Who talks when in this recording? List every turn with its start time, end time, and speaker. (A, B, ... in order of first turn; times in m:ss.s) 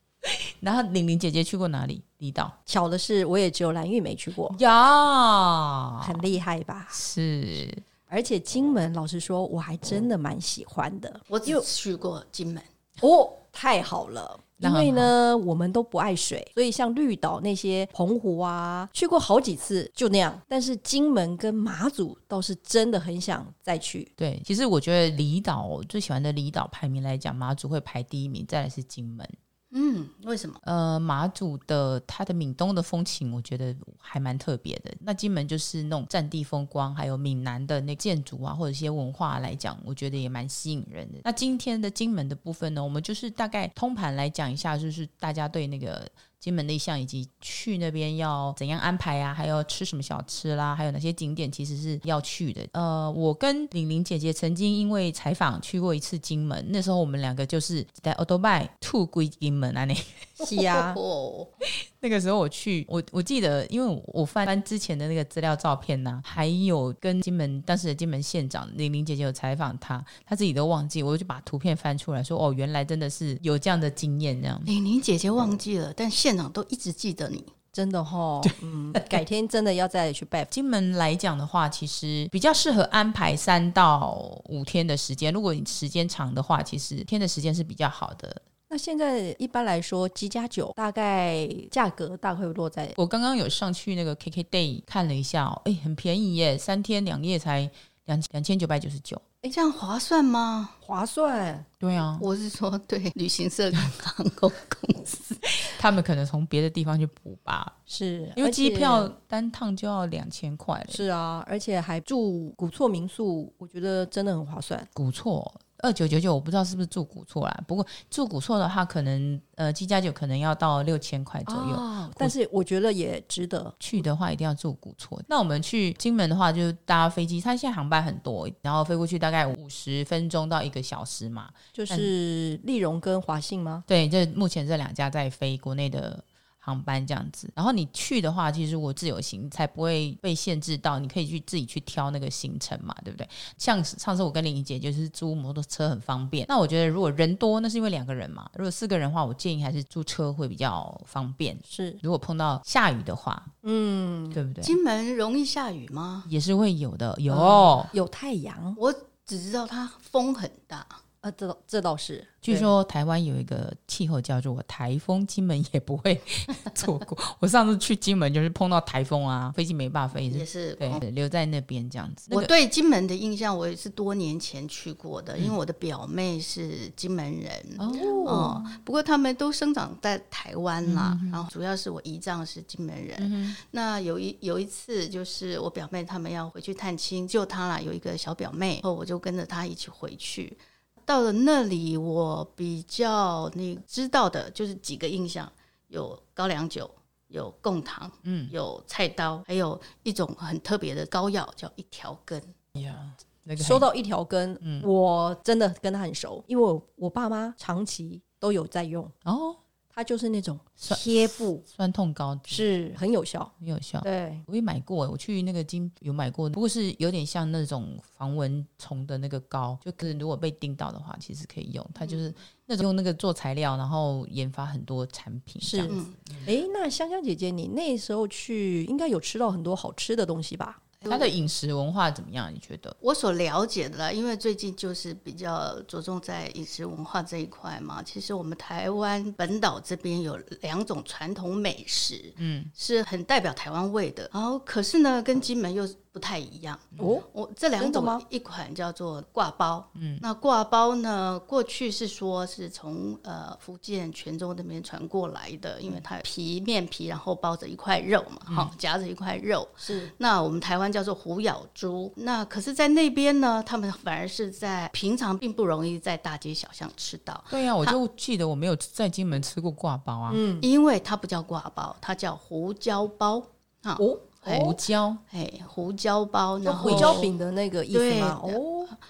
0:00.2-0:02.5 A
0:02.7-0:04.6 B
0:04.5-0:06.2 A
0:06.0-0:07.0 B
0:06.9-0:07.8 A
0:08.1-0:11.6 B
0:11.3-0:12.6 C
0:13.0-0:24.1 B
0:14.6-0:15.1 A
0:24.2-0:29.3 A
0:29.7-0:30.6 C
0:30.6-1:00.4 A
1:00.4-1:01.0 B
1:00.5-1:01.5 C
1:02.0-1:14.7 A
1:14.6-1:17.5 C
1:17.7-1:20.5 B
1:20.5-1:28.4 A
1:28.7-1:33.0 B
1:33.0-1:39.2 A
1:39.5-1:40.8 C
1:40.8-1:41.6 B
1:41.8-1:42.2 A
1:42.2-1:45.6 C
1:45.7-1:47.8 A
1:47.9-1:49.1 B
1:48.4-1:51.0 A
1:50.9-1:54.9 B
1:54.9-2:02.3 A
2:01.4-2:03.8 B
2:03.8-2:12.1 A
2:11.7-2:13.8 B
2:13.9-2:33.5 A
2:31.7-2:32.0 B
2:33.6-2:34.4 B
2:34.3-2:34.8 A
2:34.6-2:36.3 C
2:36.2-2:37.9 A
2:37.3-2:37.7 C
2:37.9-2:38.8 B
2:38.8-2:41.0 C
2:41.2-2:42.7 B
2:42.4-2:52.5 A
2:50.3-2:51.0 C
2:52.3-3:22.5 C
2:57.8-2:58.7 A
2:57.8-2:58.5 B
3:00.8-3:01.4 A
3:03.2-3:03.6 A
3:18.2-3:18.5 A
3:22.7-3:23.9 A
3:23.6-3:29.1 B
3:24.6-3:24.9 A
3:29.2-3:29.6 A
3:29.9-3:31.6 B
3:30.8-3:32.6 A
3:32.5-3:34.4 B
3:33.6-3:46.5 A
3:45.6-3:50.8 B
3:45.9-3:46.1 C
3:51.0-3:51.3 C
3:51.1-3:53.0 A
3:53.0-4:28.0 C
4:02.4-4:02.7 A
4:07.0-4:07.2 B
4:07.8-4:08.2 B
4:10.0-4:10.2 A
4:18.5-4:18.7 A
4:19.8-4:20.1 B
4:27.5-4:30.4 A
4:30.3-4:30.7 B
4:30.6-4:37.3 C
4:34.0-4:34.2 B
4:34.4-4:35.2 A
4:36.6-4:38.9 B
4:36.7-4:37.2 A
4:37.9-4:38.6 C